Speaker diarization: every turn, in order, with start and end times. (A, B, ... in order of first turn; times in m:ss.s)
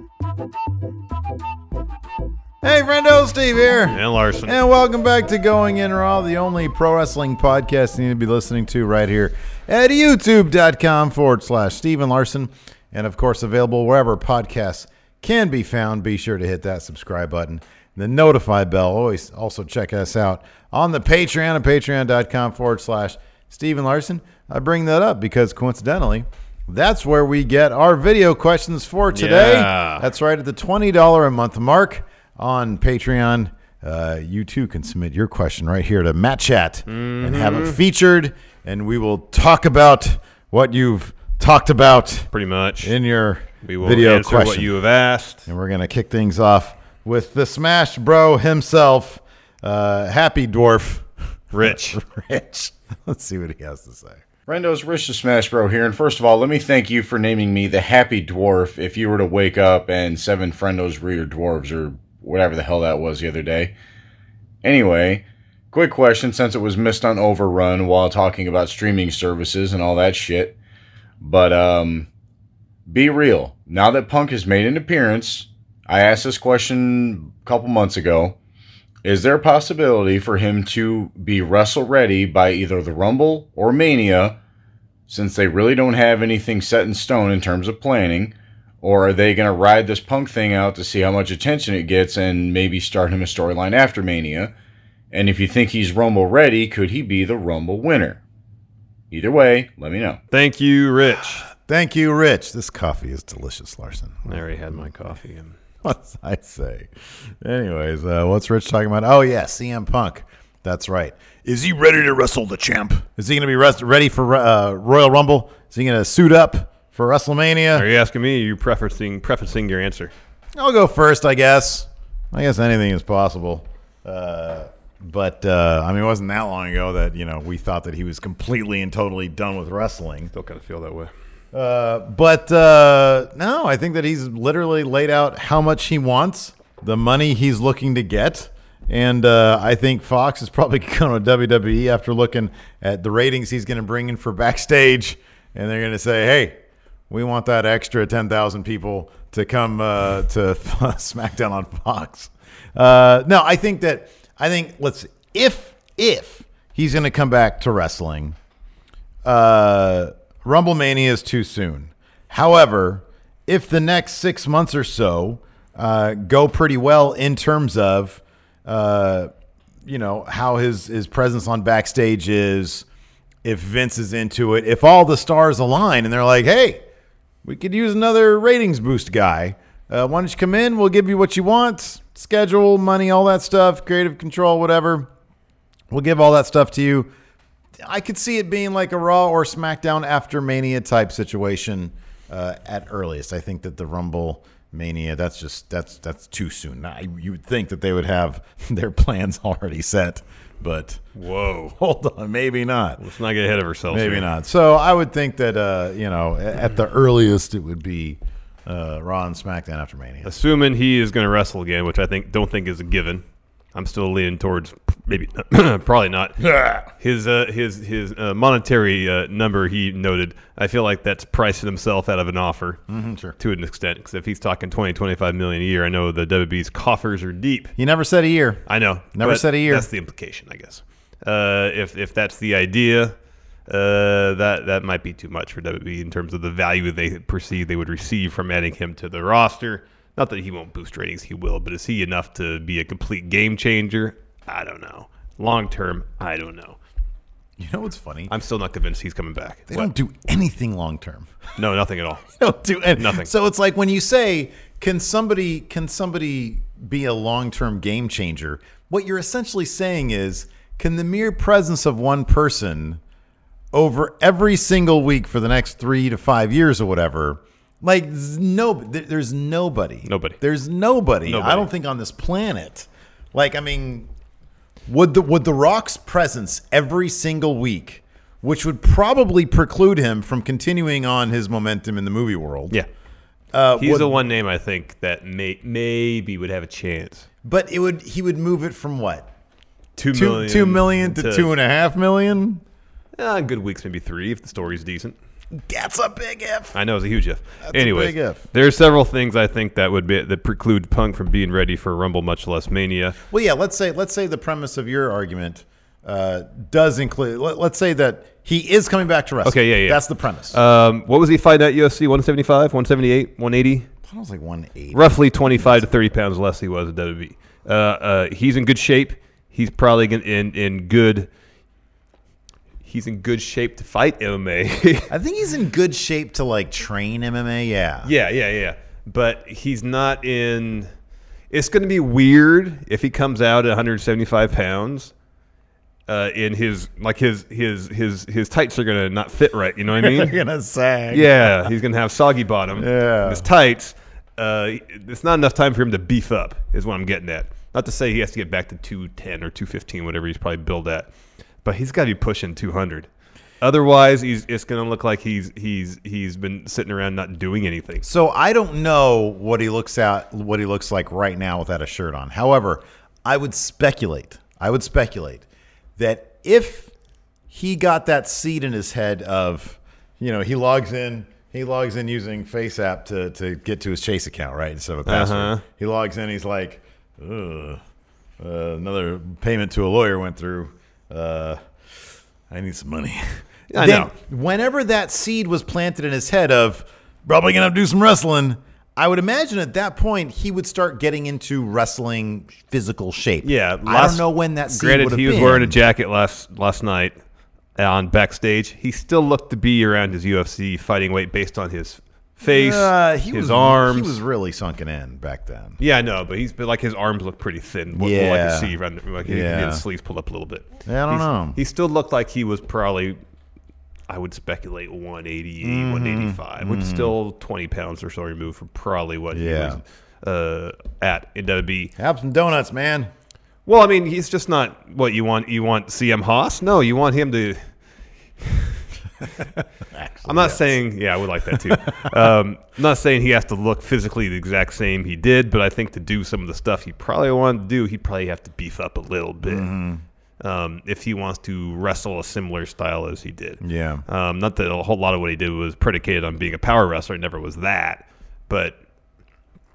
0:02.6-0:42.3 A
0:03.9-0:04.6 B
0:29.1-0:30.1 B
0:36.9-0:37.8 B
0:42.3-0:42.9 B
0:42.8-0:44.7 A
0:43.6-0:45.5 B
0:45.5-0:51.1 A
0:51.5-0:52.0 B
0:51.6-0:54.2 A
0:54.5-1:03.7 C
1:04.6-1:10.6 C
1:11.2-1:12.1 C
1:12.9-1:18.4 C
1:19.0-1:24.4 C
1:25.1-1:34.5 C
1:35.1-1:38.2 C
1:39.1-1:40.2 C
1:40.3-1:41.5 B
1:41.6-1:44.8 A
1:44.3-1:45.6 B
1:45.8-1:46.9 A
1:47.4-1:57.9 A
1:57.7-2:00.1 B
2:00.6-2:10.3 A
2:10.3-2:11.1 B
2:11.5-2:38.4 A
2:39.2-2:49.3 A
2:49.8-2:52.9 A
2:53.4-2:56.8 A
2:57.4-3:05.1 A
3:05.9-3:07.1 A
3:07.8-3:21.0 A
3:21.2-3:21.8 B
3:21.8-3:23.0 A
3:23.0-3:24.3 B
3:23.9-3:30.3 A
3:30.2-3:42.8 B
3:36.4-3:36.9 A
3:42.9-3:43.4 A
3:43.4-3:47.7 B
3:47.8-3:48.6 A
3:48.7-3:53.2 B
3:49.1-3:49.9 A
3:53.7-4:06.8 B
4:07.6-4:08.3 A
4:08.3-4:09.9 B
4:09.7-4:11.3 A
4:11.6-4:12.3 B
4:12.4-4:23.0 A
4:13.0-4:13.3 B
4:23.7-4:34.1 A
4:30.1-4:30.4 B
4:31.3-4:31.7 B
4:34.9-4:42.8 A
4:43.5-4:44.2 A
4:43.8-4:47.3 B
4:47.4-4:49.3 A
4:50.0-4:51.5 B
4:50.1-4:52.6 A
4:53.2-4:55.2 B
4:55.6-4:56.8 A
4:56.7-5:03.2 B
4:57.6-4:58.4 A
5:03.3-5:10.6 A
5:09.4-5:13.9 B
5:14.0-5:15.9 A
5:14.9-5:21.3 B
5:22.8-5:25.1 B
5:25.1-5:28.1 A
5:28.0-5:30.9 B
5:31.5-5:35.1 B
5:36.1-5:40.4 B
5:40.0-5:41.7 A
5:41.1-5:51.1 B
5:42.7-5:43.5 A
5:51.6-5:53.1 B
5:53.6-5:58.1 B
5:58.0-6:05.4 A
6:06.0-6:06.9 A
6:07.5-6:17.8 A
6:15.0-6:15.6 B
6:18.4-6:21.6 A
6:22.5-6:35.8 A
6:23.7-6:24.1 B
6:33.4-6:37.2 B
6:37.8-6:44.2 B
6:42.4-6:45.8 A
6:45.8-6:53.2 B
6:47.9-6:49.8 A
6:50.9-6:51.6 A
6:54.1-7:01.9 B
6:55.6-6:57.2 A
6:59.3-6:59.8 A
7:02.0-7:03.1 A
7:03.7-7:07.6 B
7:08.4-7:08.8 B
7:09.6-7:10.8 A
7:10.2-7:19.7 B
7:11.5-7:12.3 A
7:19.4-7:20.0 A
7:20.4-7:28.8 B
7:23.6-7:24.0 A